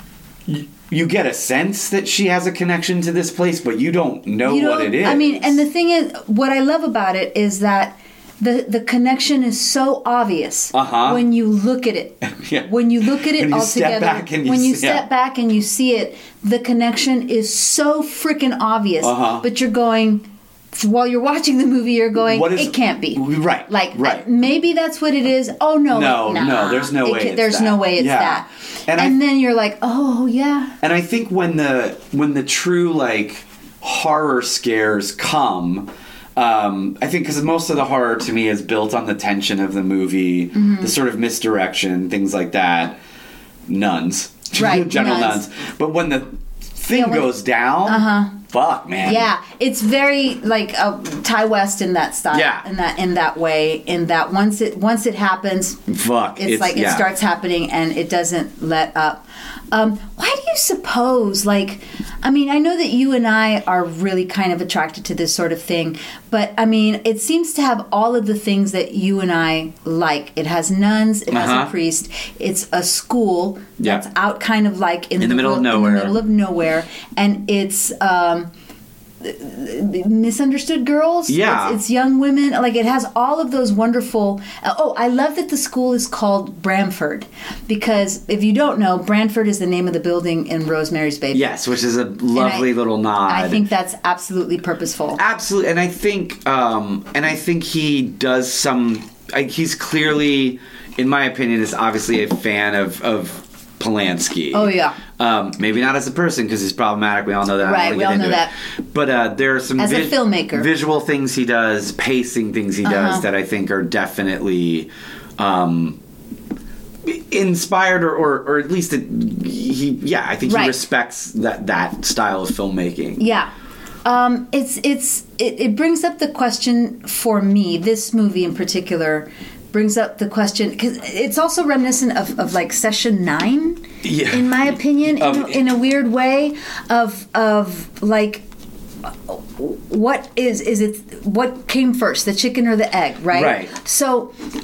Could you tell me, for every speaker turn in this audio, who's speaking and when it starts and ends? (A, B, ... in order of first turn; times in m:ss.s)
0:00.5-0:05.6 A
0:04.4-0:30.7 B
0:10.7-0:11.2 A
0:12.3-0:15.0 A
0:19.0-0:19.4 A
0:22.3-0:24.2 A
0:25.9-0:29.2 A
0:30.8-0:43.0 A
0:40.5-0:40.9 B
0:43.7-0:49.3 A
0:44.5-0:45.4 B
0:46.9-0:47.3 B
0:47.8-0:48.4 B
0:49.0-1:18.5 B
0:52.3-0:52.6 A
0:55.9-0:57.0 A
1:11.3-1:11.7 A
1:15.2-1:16.2 A
1:19.2-1:31.5 B
1:21.3-1:21.8 A
1:31.3-1:33.6 A
1:32.3-1:32.7 B
1:33.2-1:35.2 B
1:35.2-1:56.0 A
1:44.5-1:45.0 B
1:47.6-1:48.5 B
1:49.8-1:50.7 B
1:52.8-1:53.2 B
1:57.0-2:03.2 A
2:00.5-2:00.8 B
2:03.2-2:03.5 B
2:04.0-2:18.4 B
2:14.0-2:15.6 A
2:19.3-2:24.3 B
2:23.3-2:23.7 A